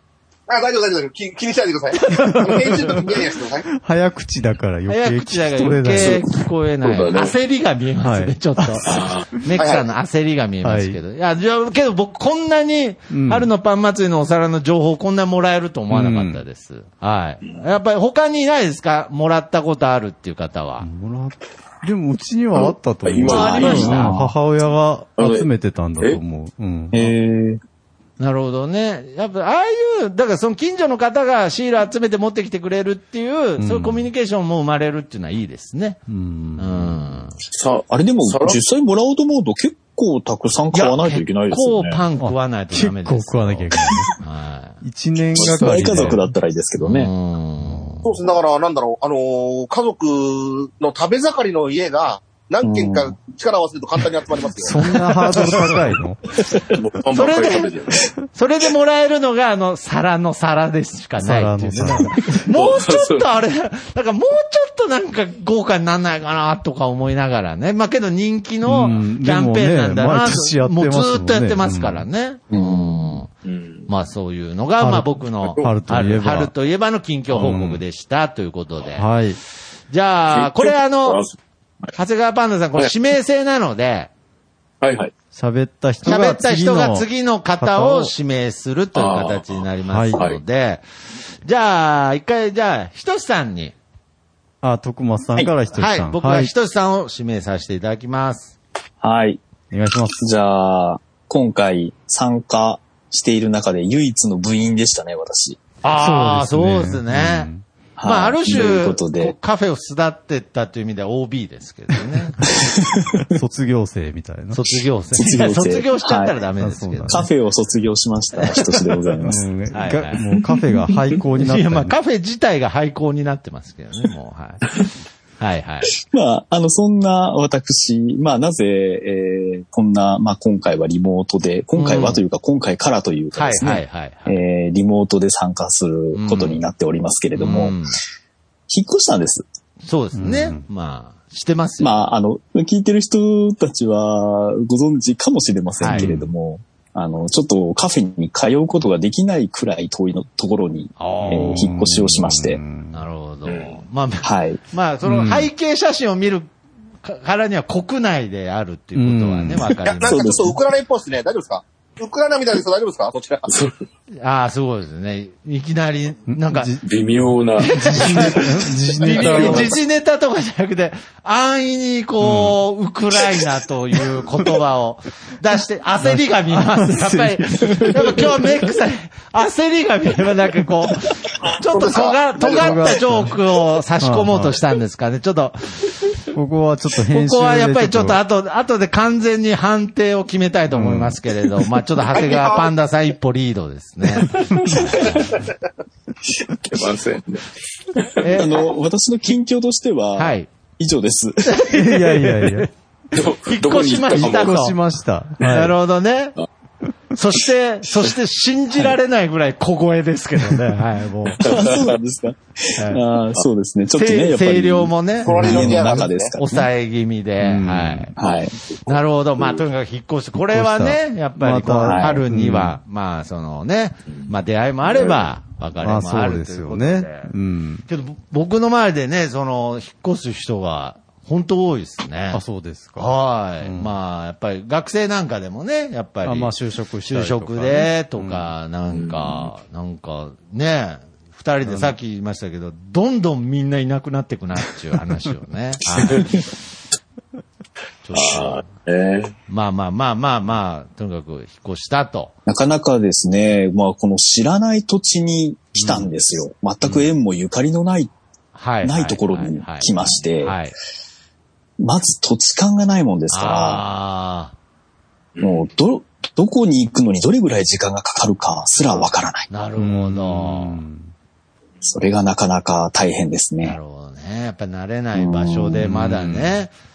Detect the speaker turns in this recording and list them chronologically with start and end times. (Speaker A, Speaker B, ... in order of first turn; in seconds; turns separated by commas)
Speaker A: 0.5-3.7, Speaker B: 2.0-3.0, Speaker C: 3.8-6.2, Speaker B: 4.9-20.9, Speaker D: 6.8-7.3, Speaker C: 8.0-8.8, Speaker D: 8.8-9.3, Speaker A: 9.6-9.8, Speaker C: 10.6-11.0, Speaker C: 13.1-13.5, Speaker C: 15.9-16.4, Speaker C: 20.8-27.1, Speaker D: 23.1-24.0, Speaker E: 23.3-24.4, Speaker B: 23.3-24.1, Speaker D: 25.2-25.5, Speaker E: 26.9-27.6, Speaker B: 28.2-36.0, Speaker C: 33.6-34.1, Speaker C: 36.1-37.0, Speaker B: 36.6-37.3, Speaker D: 37.5-38.6, Speaker E: 37.9-42.0, Speaker B: 40.7-44.8, Speaker C: 42.2-44.1, Speaker C: 44.8-46.2, Speaker E: 45.4-47.1, Speaker D: 45.4-46.1, Speaker B: 46.8-48.1, Speaker A: 48.0-54.7, Speaker E: 52.6-53.2, Speaker C: 54.6-56.2, Speaker D: 56.7-58.1, Speaker B: 57.1-57.7, Speaker B: 58.3-73.3, Speaker C: 61.2-62.4, Speaker D: 62.5-63.3, Speaker C: 68.6-72.1, Speaker E: 72.5-73.2, Speaker D: 73.4-73.9, Speaker B: 73.9-79.1, Speaker C: 74.8-76.5, Speaker C: 77.3-77.8, Speaker C: 79.0-79.4, Speaker B: 79.9-81.2, Speaker D: 80.3-81.9, Speaker B: 82.0-84.1, Speaker D: 84.8-85.1, Speaker C: 85.3-87.1, Speaker B: 86.0-90.8, Speaker C: 87.6-88.1, Speaker D: 89.0-90.4, Speaker C: 89.9-90.2, Speaker B: 91.5-93.7, Speaker C: 94.6-96.5, Speaker B: 95.8-98.5, Speaker E: 99.0-99.4, Speaker C: 99.7-100.2, Speaker E: 100.2-105.6, Speaker B: 105.8-107.5, Speaker C: 105.9-107.7, Speaker E: 108.0-109.3, Speaker B: 108.0-112.5, Speaker E: 112.4-113.3, Speaker C: 113.3-114.7, Speaker B: 114.5-117.2, Speaker E: 115.1-116.4, Speaker C: 116.6-117.3, Speaker E: 117.1-119.5, Speaker B: 118.4-118.7, Speaker C: 119.2-122.0, Speaker B: 119.7-120.2, Speaker B: 121.4-124.7, Speaker B: 125.4-125.9, Speaker E: 126.1-137.8, Speaker B: 131.8-132.2, Speaker B: 133.3-134.4, Speaker B: 136.2-136.6, Speaker B: 137.4-138.0, Speaker E: 138.7-139.4, Speaker B: 139.8-142.0, Speaker C: 140.2-140.6, Speaker E: 141.8-152.6, Speaker B: 145.8-146.1, Speaker C: 145.9-146.3, Speaker B: 151.0-151.7, Speaker C: 151.3-153.0, Speaker B: 152.9-156.5, Speaker D: 153.5-153.8, Speaker E: 154.2-154.6, Speaker C: 155.0-155.5, Speaker B: 157.0-160.5, Speaker C: 159.0-159.7, Speaker A: 160.0-163.5, Speaker E: 160.1-160.6, Speaker D: 163.5-163.7, Speaker B: 164.2-166.7, Speaker C: 166.3-169.7, Speaker D: 166.8-169.7, Speaker B: 167.6-168.4, Speaker B: 169.0-185.6, Speaker C: 172.2-172.6, Speaker C: 176.0-178.3, Speaker A: 181.7-183.0, Speaker C: 182.5-183.3, Speaker C: 184.0-184.6, Speaker C: 186.3-188.2, Speaker B: 187.1-195.1, Speaker C: 190.7-191.2, Speaker A: 192.1-192.7, Speaker D: 196.6-198.1, Speaker B: 198.2-198.5, Speaker E: 198.3-201.6, Speaker B: 200.2-200.5, Speaker B: 201.5-202.7, Speaker C: 201.7-202.7, Speaker D: 203.1-204.7, Speaker B: 203.4-204.8, Speaker C: 204.1-205.8, Speaker B: 205.4-206.3, Speaker B: 207.2-211.5, Speaker E: 211.4-216.7, Speaker D: 211.5-212.0, Speaker B: 212.8-213.0, Speaker B: 213.9-218.1, Speaker A: 215.2-216.3, Speaker C: 217.4-218.1, Speaker E: 218.2-218.6, Speaker D: 218.2-218.5, Speaker B: 218.9-227.3, Speaker C: 220.4-222.8, Speaker E: 221.8-222.2, Speaker D: 224.9-225.2, Speaker C: 225.8-227.8, Speaker B: 227.9-232.4, Speaker C: 232.3-233.9, Speaker B: 233.0-236.6, Speaker C: 236.2-238.5, Speaker B: 237.1-246.3, Speaker D: 238.9-239.5, Speaker C: 241.6-242.0, Speaker B: 248.1-248.7, Speaker D: 248.1-249.3, Speaker B: 249.5-252.3, Speaker E: 252.5-258.1, Speaker B: 258.6-260.7, Speaker E: 258.8-260.6, Speaker E: 261.8-263.8, Speaker B: 263.3-264.5, Speaker D: 265.4-265.7, Speaker E: 265.4-269.5, Speaker B: 269.5-270.8, Speaker C: 269.8-271.1, Speaker E: 271.8-273.8, Speaker B: 273.6-276.7, Speaker E: 275.1-276.0, Speaker C: 275.8-276.6